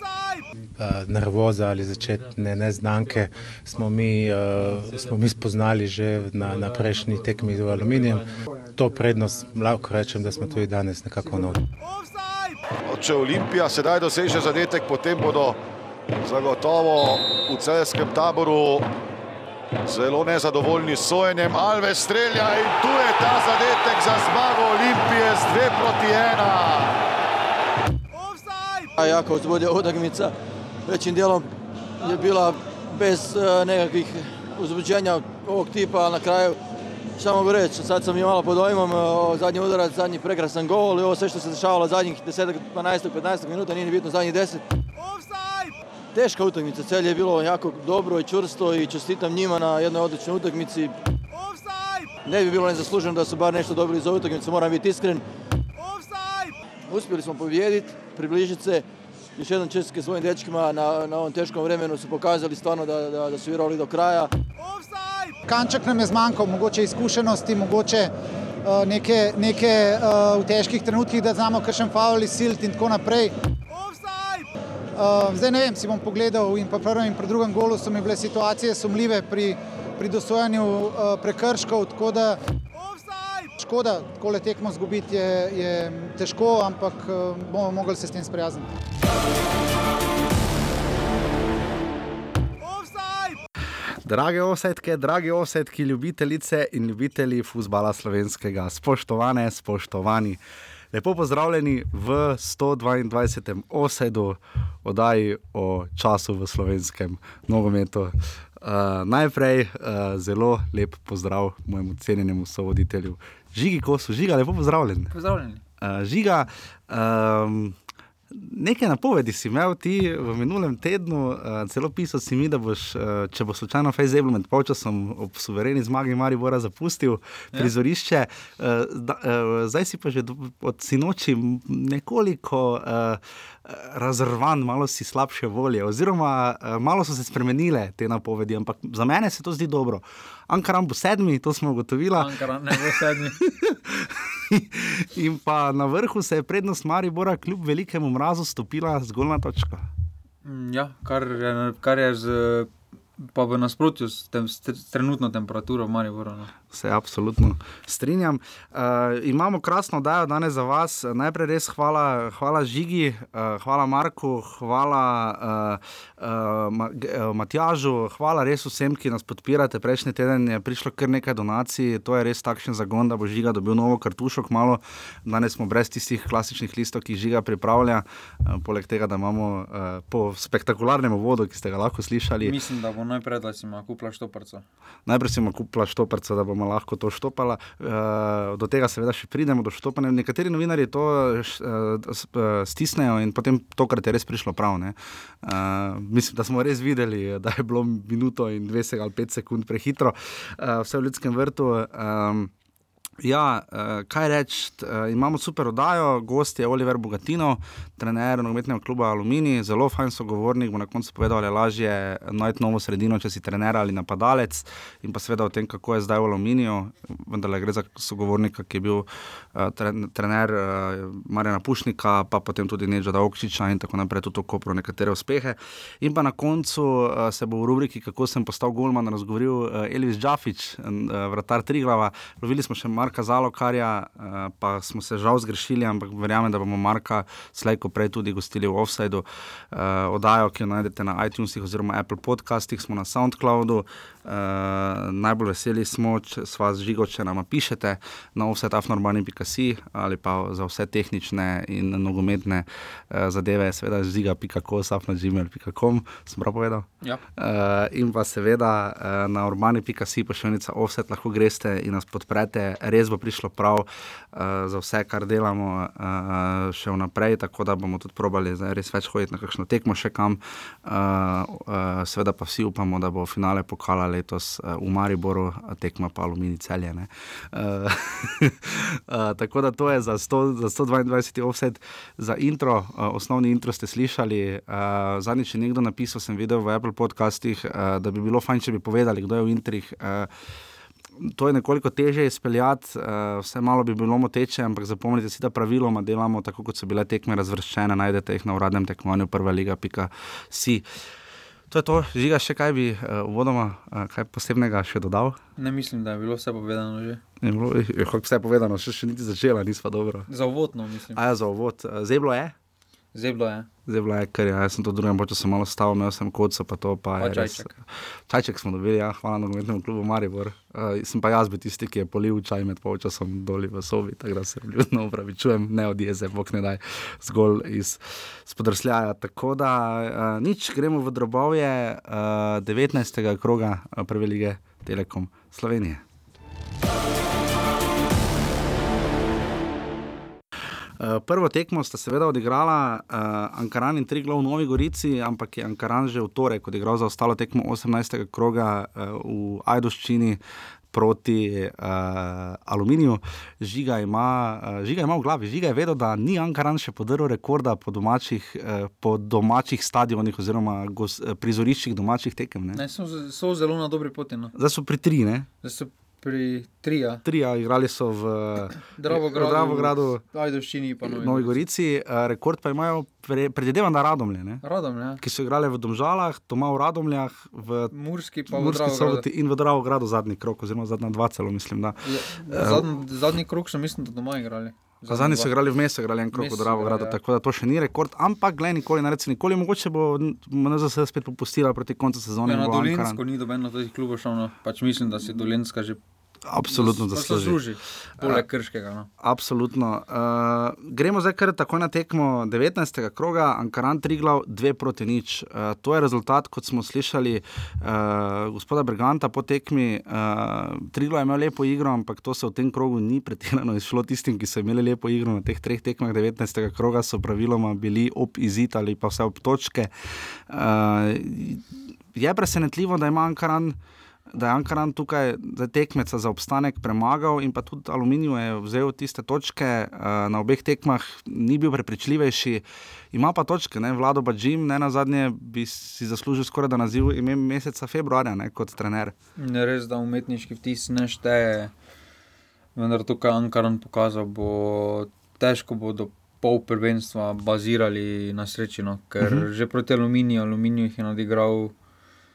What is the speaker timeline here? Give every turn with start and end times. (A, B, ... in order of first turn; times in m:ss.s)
0:00.8-0:11.6 A
0:12.9-0:15.6 B
0:16.2-0:18.9 B
0:19.8-0:27.0 B
0:29.0-0:30.3 C
0:30.8-0:31.5 C
0:32.0-0:36.6 C
0:37.2-0:44.6 C
0:46.1-0:50.9 C
0:52.2-0:55.2 C
0:56.9-0:58.8 C
0:59.4-1:04.3 C
1:05.4-1:08.1 D
1:08.6-1:13.3 D
1:14.9-1:22.4 D
1:23.6-1:28.7 D
1:34.0-1:40.4 E
1:40.9-1:55.1 E
1:55.1-1:55.6 F
1:55.8-1:57.8 E
1:58.3-2:29.9 E
2:22.2-2:23.4 F
2:30.4-2:36.5 F
2:36.7-3:02.6 E
3:02.4-3:04.6 F
3:05.0-3:22.5 E
3:23.2-4:50.3 E
4:51.2-5:00.8 E
5:01.7-5:05.4 E
5:05.6-5:07.2 F
5:07.4-5:10.3 E
5:10.3-5:11.2 F
5:11.1-5:12.5 E
5:13.1-5:13.7 F
5:13.9-5:17.8 E
5:17.2-5:17.7 F
5:18.3-5:36.0 E
5:41.0-5:50.4 E
5:50.9-6:02.8 E
6:02.7-6:04.5 F
6:04.6-6:05.5 E
6:05.6-6:07.2 F
6:07.2-6:10.2 E
6:08.9-6:11.6 F
6:11.0-6:14.6 E
6:14.6-6:15.2 F
6:15.2-6:17.9 E
6:17.9-6:19.2 F
6:18.5-6:22.9 E
6:22.0-6:25.5 F
6:25.1-6:33.2 E
6:26.3-6:27.2 F
6:32.4-6:36.0 F
6:36.5-6:37.6 E
6:36.6-6:39.1 F
6:39.2-7:03.8 E
7:04.3-7:19.1 E
7:19.4-7:21.7 F
7:22.8-7:31.7 F
7:29.2-7:29.5 E